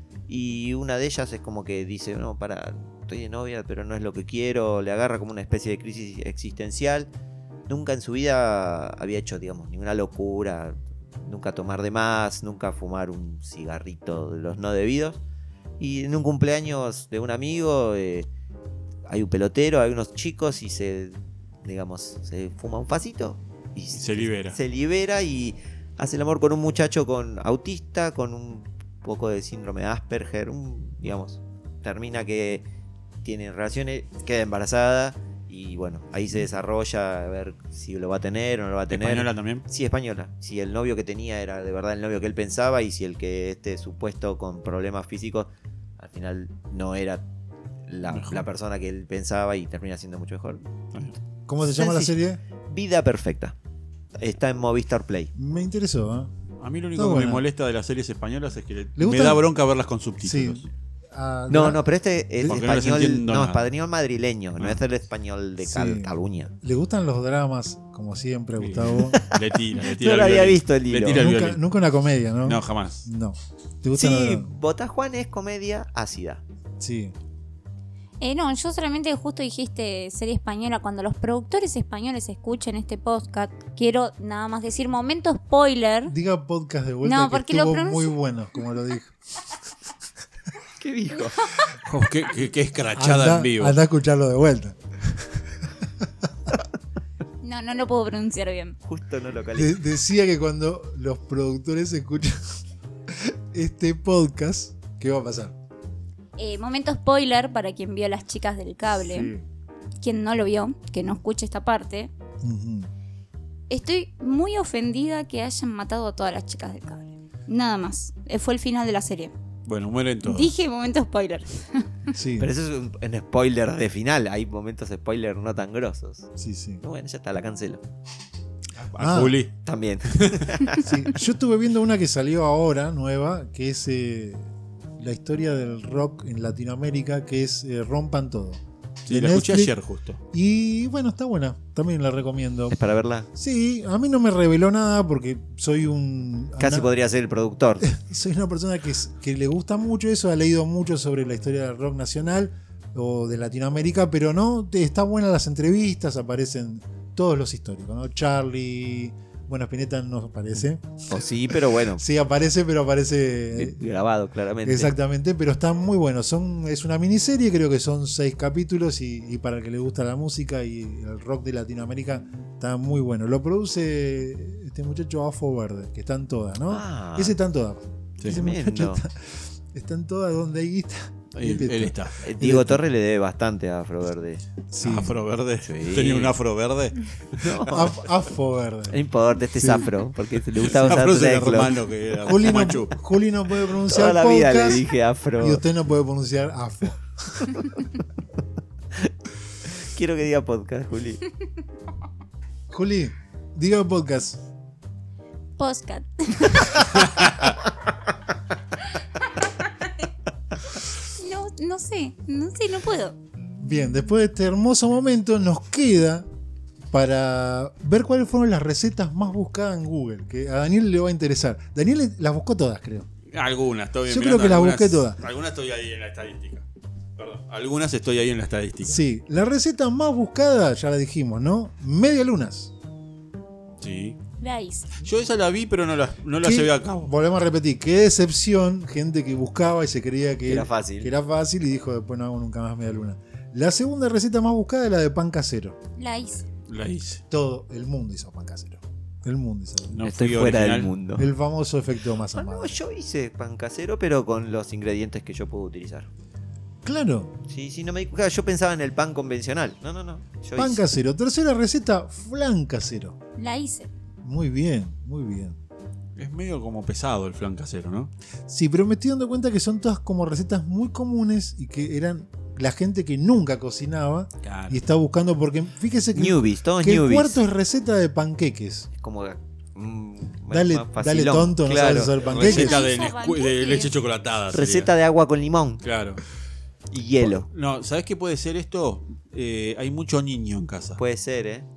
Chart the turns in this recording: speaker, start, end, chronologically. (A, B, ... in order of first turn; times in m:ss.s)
0:00.3-0:07.1 A
0:07.7-0:15.2 A
0:15.8-0:18.3 A
0:19.1-0:32.6 A
0:23.9-0:24.6 B
0:33.2-0:47.2 A
0:38.9-0:39.6 B
0:47.9-0:50.7 A
0:48.1-0:48.4 B
0:51.5-0:52.4 C
0:51.8-0:53.6 A
0:54.2-0:55.3 A
0:55.4-0:56.3 C
0:56.6-1:00.7 B
0:57.0-0:57.4 C
0:59.0-0:59.5 C
1:00.2-1:01.8 C
1:01.5-1:06.5 A
1:02.4-1:03.7 B
1:05.6-1:09.2 C
1:08.6-1:11.6 B
1:09.0-1:11.3 A
1:11.1-1:14.5 C
1:12.4-1:13.1 B
1:13.9-1:16.4 A
1:16.8-1:17.2 C
1:18.2-1:26.1 D
1:26.1-1:29.2 C
1:27.0-1:28.1 D
1:30.8-1:31.5 A
1:31.4-1:31.7 D
1:31.8-1:33.8 B
1:32.9-1:36.1 C
1:37.4-1:38.8 D
1:38.8-1:39.8 A
1:39.5-1:45.6 C
1:46.4-1:49.3 D
1:49.0-1:49.4 C
1:50.0-1:52.1 D
1:52.4-1:52.9 C
1:53.7-1:59.3 D
1:59.7-2:00.5 B
2:00.2-2:02.1 D
2:02.1-2:02.5 C
2:02.4-2:06.3 A
2:06.4-2:06.8 C
2:06.8-2:07.8 A
2:08.8-2:09.5 B
2:09.0-2:09.4 C
2:09.6-2:10.9 A
2:10.0-2:10.6 B
2:10.8-2:19.8 C
2:19.1-2:20.2 B
2:20.3-2:22.8 C
2:22.7-2:23.3 A
2:23.3-2:26.9 C
2:26.6-2:27.9 A
2:27.8-2:43.8 C
2:41.1-2:42.0 A
2:43.5-2:44.9 A
2:44.6-3:02.8 C
2:56.7-2:57.4 A
2:58.2-2:59.0 A
3:01.4-3:02.2 B
3:02.2-3:04.4 A
3:04.7-3:05.2 C
3:04.8-3:07.8 B
3:05.6-3:06.4 A
3:07.3-3:08.0 A
3:07.7-3:09.0 C
3:08.9-3:11.8 A
3:09.6-3:09.9 B
3:10.5-3:13.0 B
3:12.3-3:14.9 C
3:13.9-3:15.6 A
3:15.4-3:17.5 C
3:19.6-3:21.2 A
3:22.7-3:24.4 C
3:25.6-3:27.3 D
3:29.4-3:29.9 D
3:30.9-3:33.2 D
3:33.6-3:36.3 C
3:36.9-3:43.1 C
3:43.3-3:46.7 B
3:44.1-3:45.2 C
3:47.2-3:49.0 B
3:48.8-3:52.7 C
3:53.8-3:54.2 B
3:54.4-3:54.9 D
3:55.0-3:57.1 B
3:56.4-4:05.8 C
4:00.5-4:01.1 A
4:06.0-4:06.5 D
4:06.7-4:07.2 B
4:07.3-4:10.0 C
4:09.9-4:10.9 B
4:10.0-4:11.3 A
4:11.2-4:12.8 C
4:12.3-4:16.1 A
4:16.8-4:17.4 C
4:17.5-4:20.8 A
4:20.6-4:23.2 C
4:23.4-4:23.9 D
4:24.2-4:25.6 C
4:26.2-4:28.1 B
4:28.5-4:38.9 C
4:34.4-4:34.8 B
4:36.2-4:37.4 A
4:39.0-4:42.2 A
4:40.5-4:42.9 C
4:42.2-4:44.9 B
4:42.4-4:44.0 D
4:44.5-4:45.8 A
4:45.8-4:46.2 B
4:46.9-4:47.5 A
4:47.2-4:51.0 B
4:51.0-4:51.7 A